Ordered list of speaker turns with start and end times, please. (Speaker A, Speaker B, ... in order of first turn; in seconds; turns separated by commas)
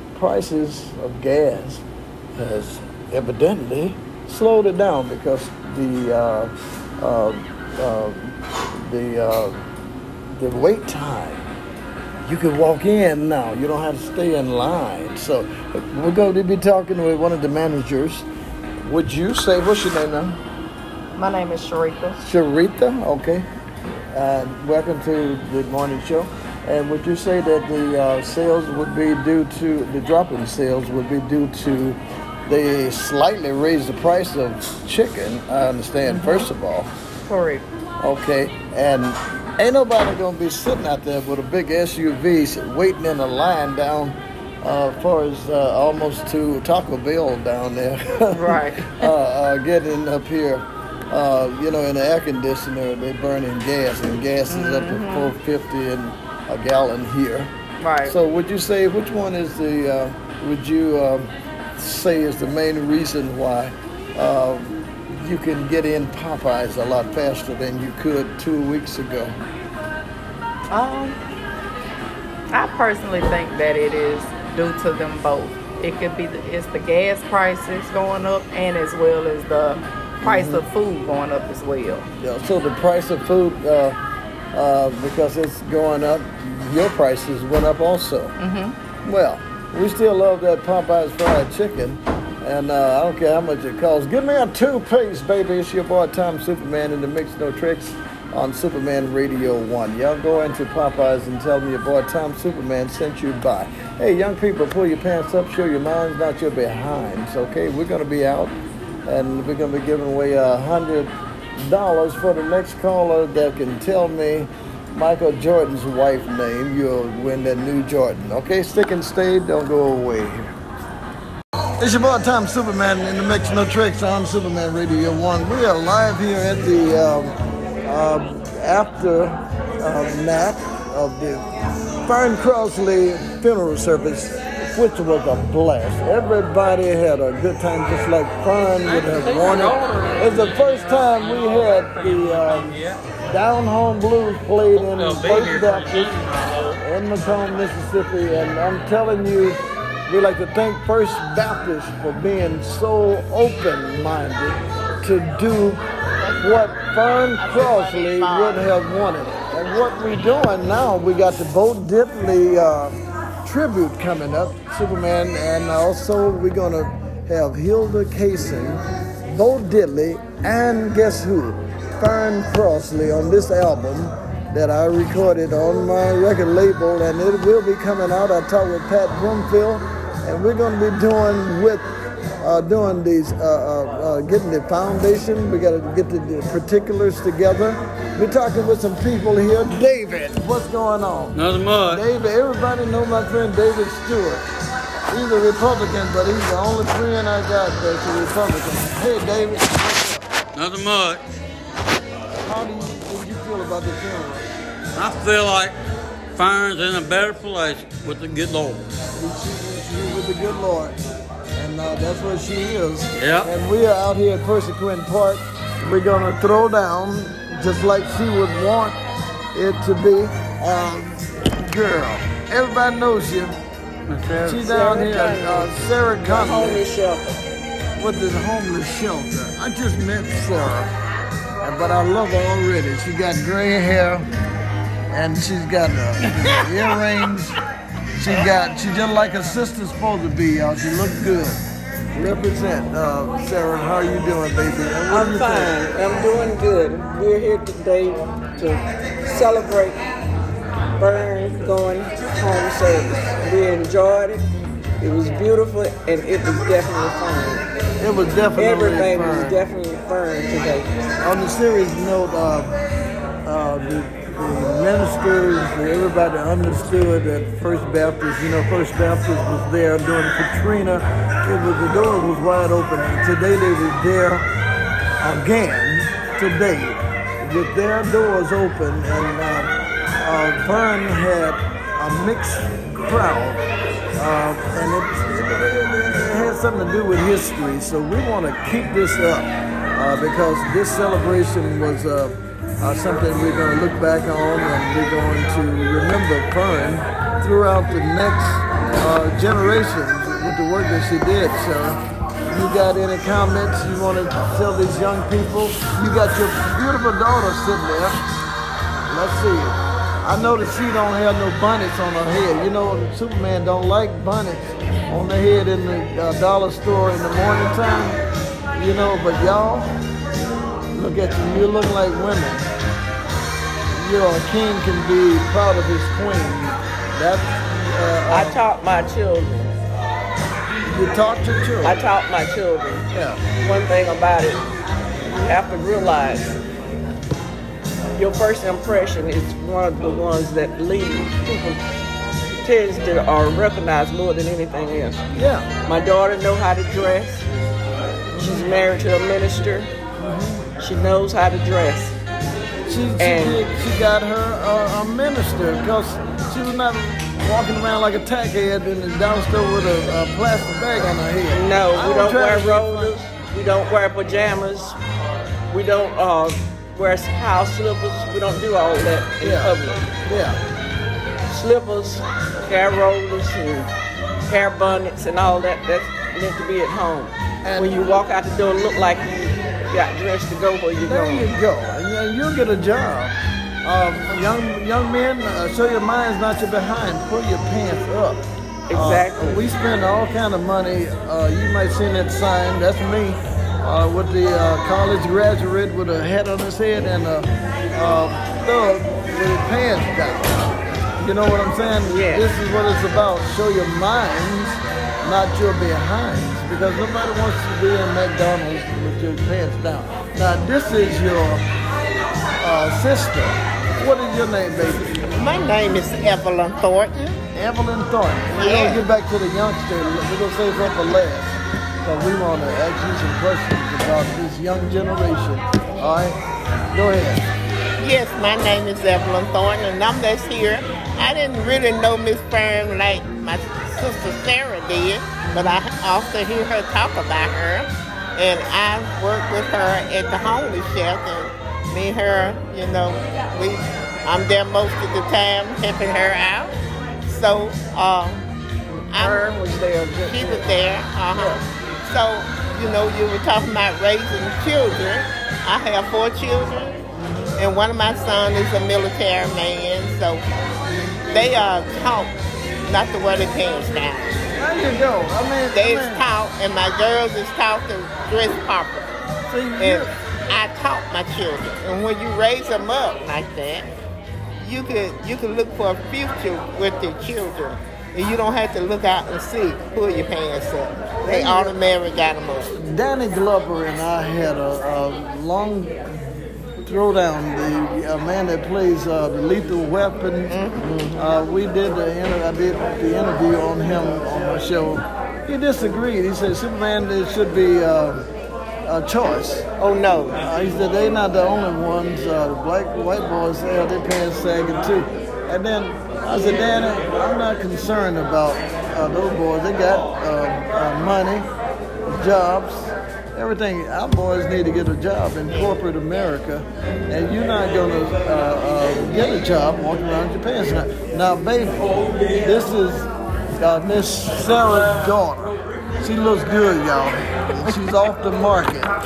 Speaker A: 0.1-1.8, Speaker A: 2.4-9.6, Speaker A: 10.4-11.5, Speaker A: 12.2-18.3, Speaker A: 18.8-20.4, Speaker B: 21.2-22.2, Speaker A: 22.2-23.5, Speaker A: 24.1-36.9, Speaker B: 36.1-36.5, Speaker B: 37.3-37.6, Speaker A: 38.0-57.5, Speaker B: 48.3-49.1, Speaker B: 54.5-55.3, Speaker B: 57.8-58.1, Speaker A: 58.0-69.4, Speaker B: 70.7-71.2, Speaker B: 72.5-82.1, Speaker A: 80.2-80.7, Speaker A: 82.2-84.0, Speaker A: 84.5-88.4, Speaker B: 88.4-88.8, Speaker A: 89.0-108.5, Speaker A: 109.1-120.5, Speaker A: 121.8-127.3, Speaker A: 127.9-131.4, Speaker A: 132.1-146.2, Speaker C: 138.8-143.0, Speaker C: 144.7-146.8, Speaker A: 146.8-155.8, Speaker D: 156.2-156.7, Speaker A: 156.4-181.9, Speaker D: 157.4-158.7, Speaker A: 182.4-194.5, Speaker C: 191.3-192.1, Speaker A: 195.1-200.2, Speaker C: 200.6-201.2, Speaker A: 202.4-204.5, Speaker C: 205.0-205.8, Speaker C: 206.3-208.9, Speaker A: 209.2-211.0, Speaker A: 211.6-219.0, Speaker C: 213.2-213.5, Speaker A: 219.5-223.6, Speaker C: 224.1-224.6, Speaker A: 224.4-226.8, Speaker E: 224.6-227.3, Speaker A: 228.0-230.9, Speaker A: 231.6-234.3, Speaker A: 235.1-237.6, Speaker A: 238.2-241.6, Speaker A: 242.1-245.8, Speaker E: 245.1-250.0, Speaker E: 251.0-254.5, Speaker E: 255.0-257.7, Speaker A: 258.0-259.6, Speaker E: 258.6-260.9, Speaker A: 261.2-262.7, Speaker A: 263.4-274.5, Speaker A: 275.2-279.7, Speaker A: 280.2-283.6, Speaker A: 284.2-308.2, Speaker A: 309.1-318.2, Speaker A: 318.7-319.9, Speaker A: 320.9-322.7, Speaker A: 323.9-328.6, Speaker E: 328.3-329.7, Speaker A: 330.9-332.0, Speaker E: 331.8-333.1, Speaker A: 333.1-333.4, Speaker E: 333.6-334.6, Speaker E: 335.4-336.6, Speaker E: 338.2-341.8, Speaker E: 342.6-345.2, Speaker A: 345.3-345.7, Speaker E: 345.9-347.5, Speaker A: 348.3-348.7, Speaker E: 348.4-349.9, Speaker A: 350.2-350.6, Speaker E: 350.8-352.2, Speaker A: 352.9-363.1, Speaker E: 353.2-353.6, Speaker E: 361.5-365.0, Speaker E: 365.7-370.1, Speaker A: 369.4-370.6, Speaker E: 371.5-373.9, Speaker E: 374.5-381.5, Speaker A: 377.6-378.0, Speaker A: 381.1-411.6, Speaker E: 388.9-389.6, Speaker E: 402.1-402.5, Speaker A: 412.6-415.2, Speaker D: 415.4-417.4, Speaker A: 417.6-426.4, Speaker D: 418.5-419.1, Speaker A: 426.9-427.4, Speaker D: 428.0-446.7, Speaker D: 447.3-448.4, Speaker D: 449.1-449.4, Speaker E: 449.2-451.6, Speaker D: 450.3-457.0, Speaker D: 457.6-460.4, Speaker D: 461.3-462.3, Speaker D: 462.9-464.3, Speaker A: 464.6-466.3, Speaker D: 465.7-469.1, Speaker A: 469.5-470.1, Speaker D: 469.8-473.9, Speaker D: 474.6-482.7, Speaker A: 481.2-481.8, Speaker A: 482.7-498.2, Speaker D: 490.5-490.9, Speaker A: 498.9-499.7, Speaker D: 499.8-500.4, Speaker A: 500.4-511.5, Speaker A: 512.1-528.9, Speaker D: 515.5-515.8